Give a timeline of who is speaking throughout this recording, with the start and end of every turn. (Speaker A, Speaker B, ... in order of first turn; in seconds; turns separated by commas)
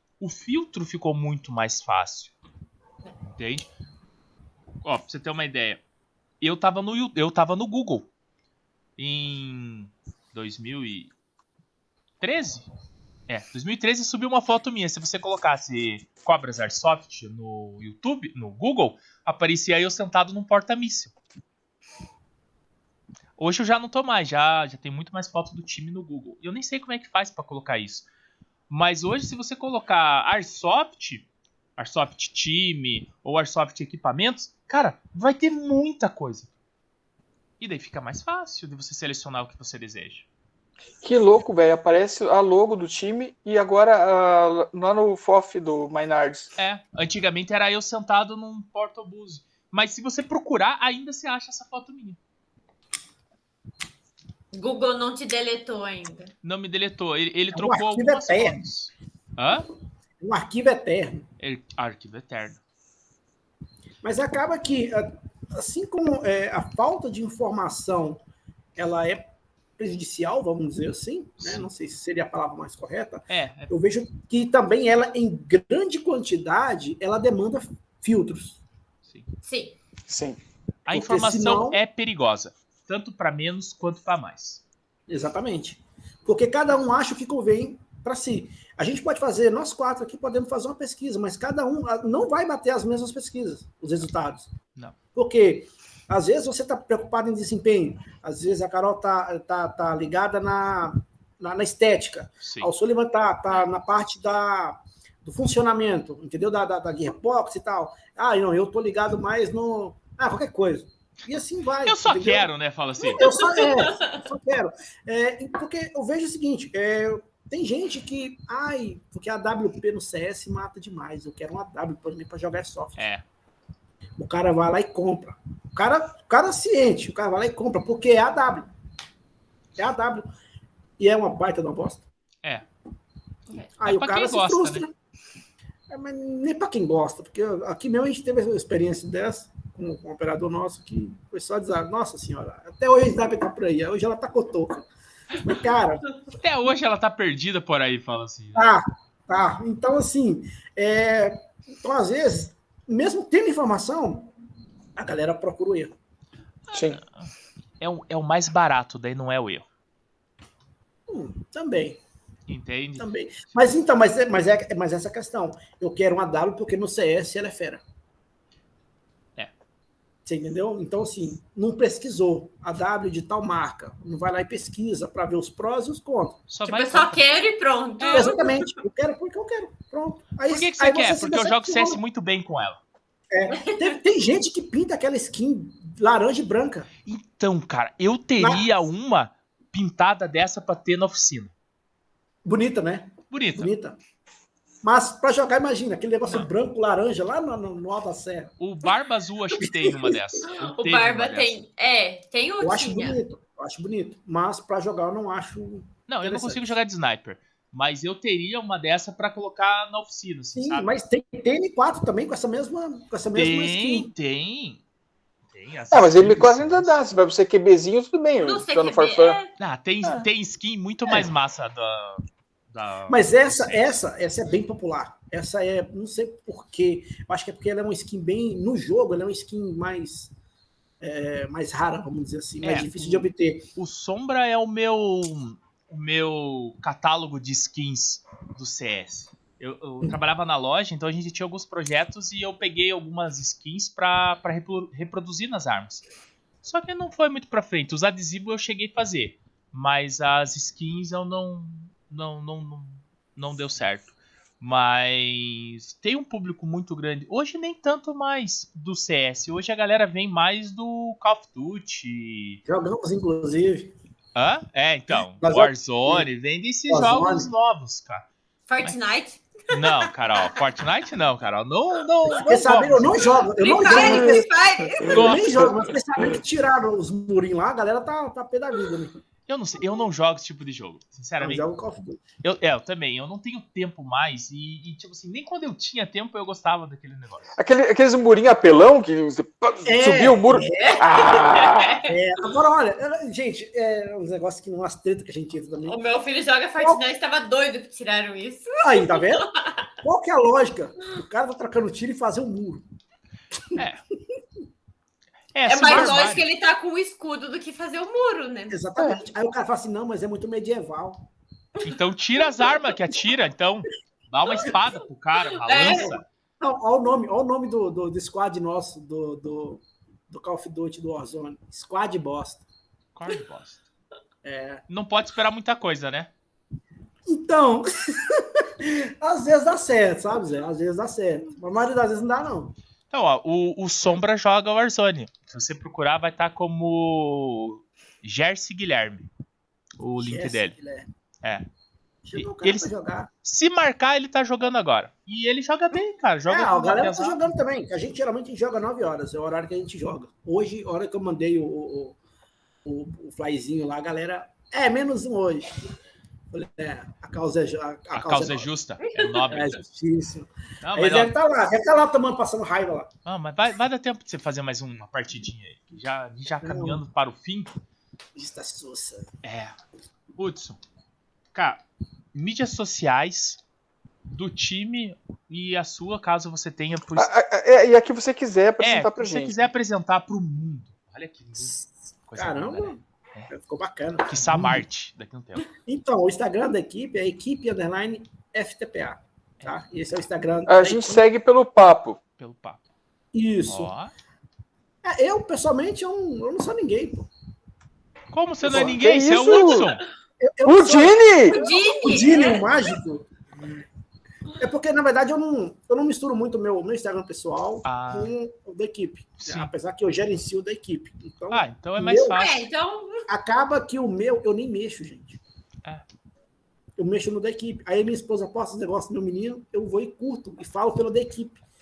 Speaker A: 0.2-2.3, Speaker A: 3.3-3.7, Speaker A: 4.8-5.8, Speaker A: 6.4-8.1, Speaker A: 9.0-11.1, Speaker A: 12.2-12.7, Speaker A: 13.3-21.1, Speaker A: 23.4-28.1, Speaker A: 28.7-36.5, Speaker A: 37.6-40.2, Speaker B: 41.0-46.5, Speaker A: 46.5-52.2, Speaker C: 54.5-56.3, Speaker A: 56.4-59.7, Speaker D: 57.5-58.6, Speaker D: 60.2-61.3, Speaker A: 61.4-62.6, Speaker D: 64.0-68.2, Speaker D: 68.8-78.6, Speaker A: 71.4-71.7, Speaker A: 73.3-73.7, Speaker C: 79.4-79.8, Speaker B: 80.1-80.4, Speaker A: 80.9-84.6, Speaker D: 80.9-81.8, Speaker D: 85.1-94.5, Speaker D: 95.1-112.5, Speaker A: 102.4-102.7, Speaker A: 111.8-113.5, Speaker D: 113.0-123.1, Speaker C: 113.2-114.1, Speaker A: 123.0-123.2, Speaker D: 124.2-128.7, Speaker D: 129.8-130.3, Speaker D: 131.0-132.0, Speaker D: 133.8-134.9, Speaker A: 133.8-134.9, Speaker D: 135.9-146.2, Speaker A: 146.3-148.7, Speaker D: 148.5-154.3, Speaker D: 155.0-155.9, Speaker A: 156.7-159.7, Speaker B: 156.7-157.0, Speaker D: 161.1-162.0, Speaker A: 162.5-163.1, Speaker D: 163.0-167.8, Speaker D: 170.2-176.4, Speaker A: 176.5-177.2, Speaker C: 176.6-178.8, Speaker A: 178.0-178.3, Speaker D: 178.1-182.0, Speaker A: 180.5-182.8, Speaker D: 183.3-186.9, Speaker C: 183.5-184.0, Speaker A: 187.0-191.5, Speaker D: 188.4-188.7, Speaker D: 192.4-194.0, Speaker A: 193.3-193.7, Speaker D: 194.8-198.5, Speaker A: 198.6-201.6, Speaker D: 199.6-200.2, Speaker C: 200.4-203.2, Speaker D: 202.6-206.8, Speaker A: 206.1-210.9, Speaker D: 210.6-214.1, Speaker A: 213.3-214.8, Speaker A: 215.5-217.0, Speaker B: 215.9-219.4, Speaker C: 218.4-219.5, Speaker A: 219.6-224.0, Speaker D: 223.1-230.3, Speaker D: 231.0-233.7, Speaker A: 232.6-246.0, Speaker A: 246.6-262.6, Speaker D: 262.6-263.9, Speaker A: 264.3-268.3, Speaker D: 265.4-266.3, Speaker D: 266.9-267.5, Speaker C: 268.7-270.5, Speaker A: 269.7-273.5, Speaker D: 272.3-279.2, Speaker C: 273.4-275.3, Speaker B: 273.9-274.4, Speaker A: 275.1-275.8, Speaker A: 279.5-281.7, Speaker D: 281.4-282.2, Speaker A: 282.4-287.6, Speaker B: 287.6-292.0, Speaker D: 289.8-296.0, Speaker C: 290.8-292.2, Speaker C: 295.9-299.8, Speaker D: 298.8-299.5, Speaker D: 300.0-302.8, Speaker A: 303.8-304.0, Speaker A: 305.5-306.4, Speaker C: 305.7-308.8, Speaker D: 305.9-306.2, Speaker D: 308.7-311.3, Speaker A: 311.8-316.2, Speaker C: 315.6-316.1, Speaker D: 315.8-322.6, Speaker A: 323.1-323.8, Speaker D: 324.4-324.8, Speaker A: 324.9-326.3, Speaker D: 327.3-332.7, Speaker A: 333.1-339.3, Speaker A: 340.0-340.7, Speaker D: 340.2-341.1, Speaker D: 342.2-343.3, Speaker A: 342.3-342.9, Speaker A: 343.4-347.5, Speaker D: 346.5-352.1, Speaker D: 352.9-355.8, Speaker D: 356.5-358.7, Speaker A: 358.1-359.8, Speaker C: 359.0-359.6, Speaker D: 359.5-363.1, Speaker A: 360.8-361.3, Speaker A: 363.2-367.8, Speaker D: 366.6-367.0, Speaker D: 368.3-369.3, Speaker A: 369.4-369.8, Speaker A: 370.4-370.8, Speaker A: 371.5-371.8, Speaker A: 372.3-373.6, Speaker A: 374.3-377.3, Speaker B: 377.1-379.7, Speaker A: 378.8-383.5, Speaker D: 382.3-384.9, Speaker A: 384.3-385.7, Speaker D: 385.8-391.2, Speaker B: 390.7-392.2, Speaker A: 392.4-392.8, Speaker D: 393.3-393.9, Speaker A: 393.7-394.1, Speaker D: 395.0-397.3, Speaker A: 398.3-400.0, Speaker B: 398.6-399.9, Speaker D: 400.4-403.8, Speaker B: 400.6-401.6, Speaker C: 401.5-402.8, Speaker D: 404.6-412.4, Speaker A: 407.8-408.3, Speaker A: 409.4-409.7, Speaker A: 411.5-412.7, Speaker C: 412.3-413.3, Speaker D: 413.3-415.4, Speaker D: 417.0-421.6